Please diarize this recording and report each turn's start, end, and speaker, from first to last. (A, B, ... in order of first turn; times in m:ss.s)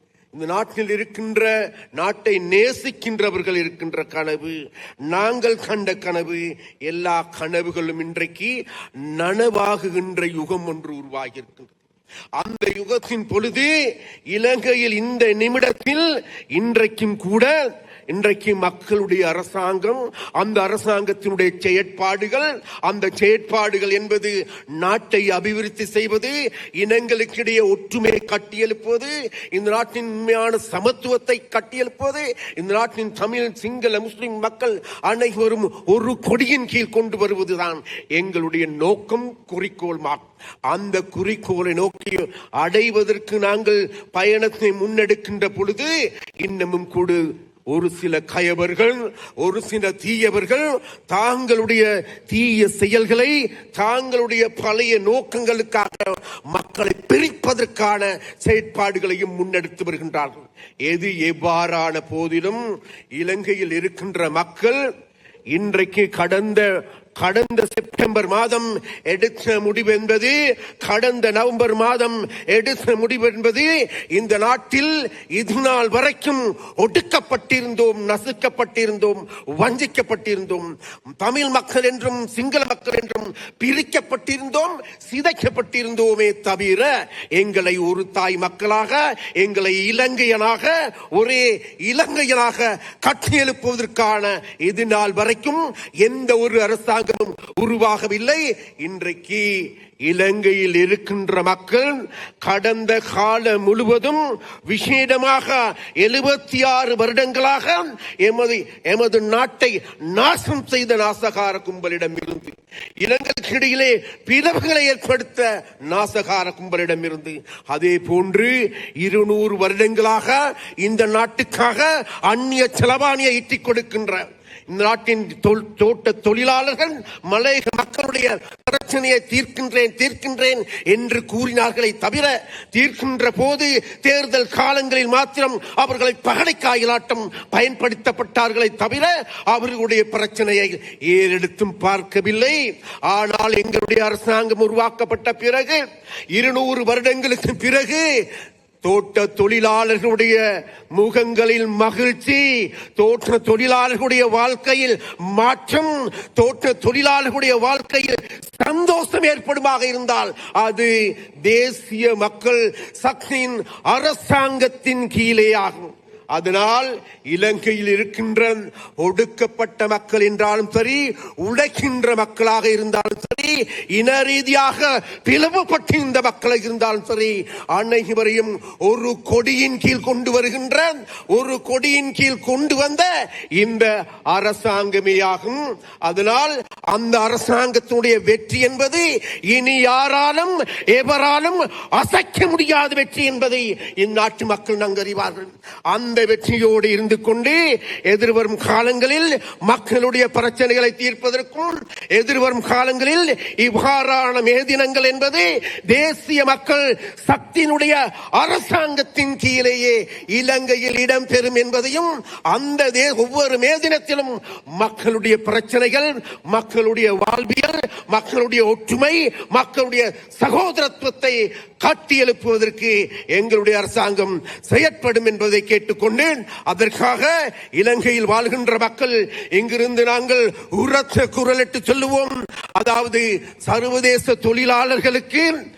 0:00.3-0:04.6 A
0:05.1-0:08.5 A
0:09.1-0:11.7 A
0:12.4-0:13.7 A
0:14.3-0:17.5 A
0:18.1-1:02.6 A
1:03.2-1:04.8 A
1:05.5-2:25.8 A
2:26.3-2:28.0 A
2:28.8-2:30.4 A
2:31.0-2:40.9 A
2:41.4-3:55.5 A